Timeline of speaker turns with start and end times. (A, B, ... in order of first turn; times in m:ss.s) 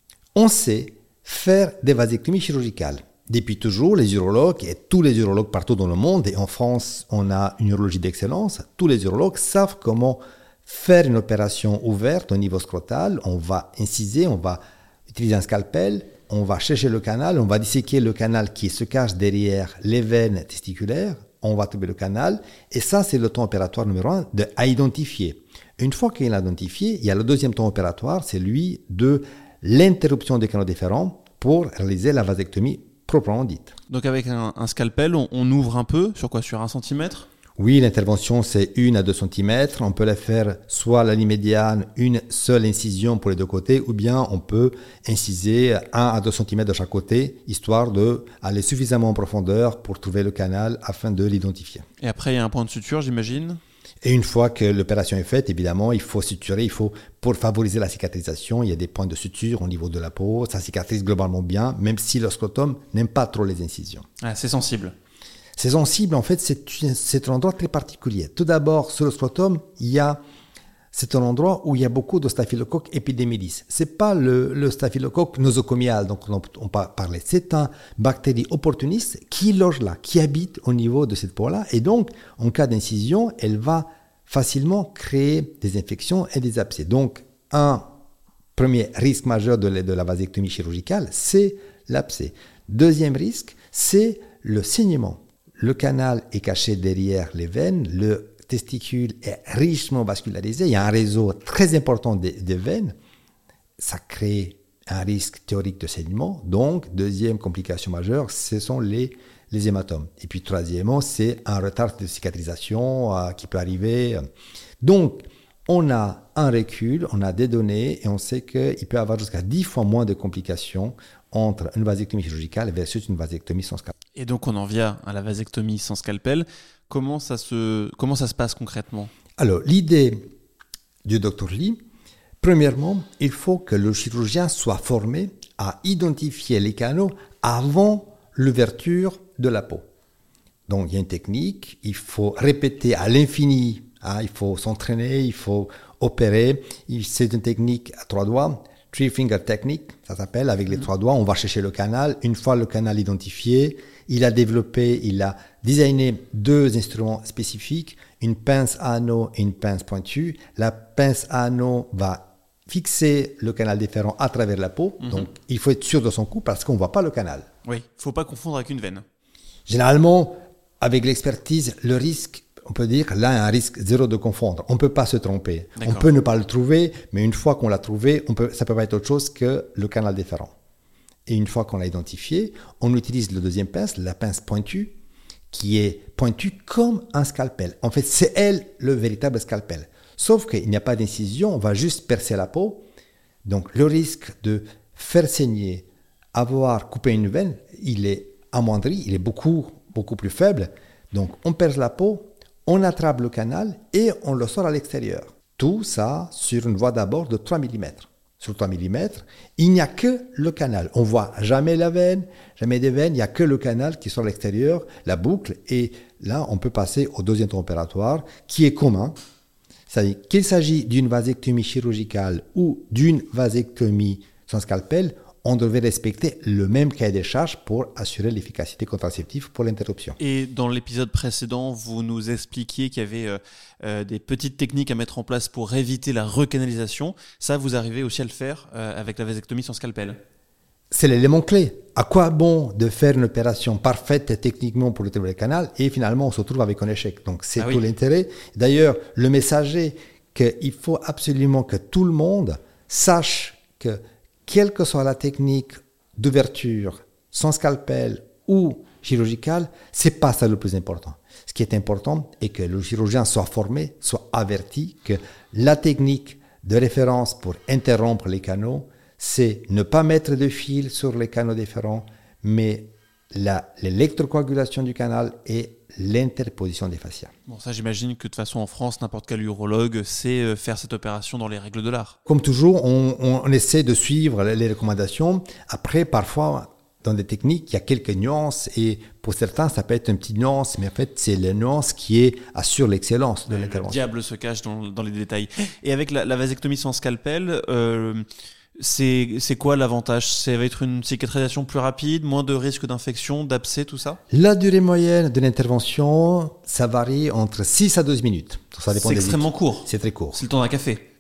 0:00.4-0:33.7 A
0:33.9-0:37.3 B
0:37.6-0:51.8 A
0:52.0-0:53.6 B
0:54.0-1:04.1 A
1:04.2-1:04.9 B
1:05.6-1:10.2 A
1:10.9-1:27.8 A
1:28.6-1:43.0 A
1:43.8-1:54.2 A
1:54.8-2:03.9 A
2:04.2-2:09.1 B
2:09.4-2:10.3 A
2:11.0-2:11.8 A
2:12.4-2:19.8 A
2:20.7-2:47.5 A
2:45.0-2:45.3 B
2:47.6-2:49.0 B
2:49.7-3:00.5 A
2:55.8-2:56.1 B
3:01.3-3:05.0 A
3:05.5-3:12.8 A
3:13.4-3:39.2 A
3:39.9-3:50.2 A
3:50.2-4:00.2 B
4:00.9-4:37.3 A
4:37.5-4:42.2 B
4:42.3-4:54.0 A
4:53.5-4:58.2 B
4:58.8-5:04.2 B
5:04.3-5:10.4 A
5:08.9-5:11.0 B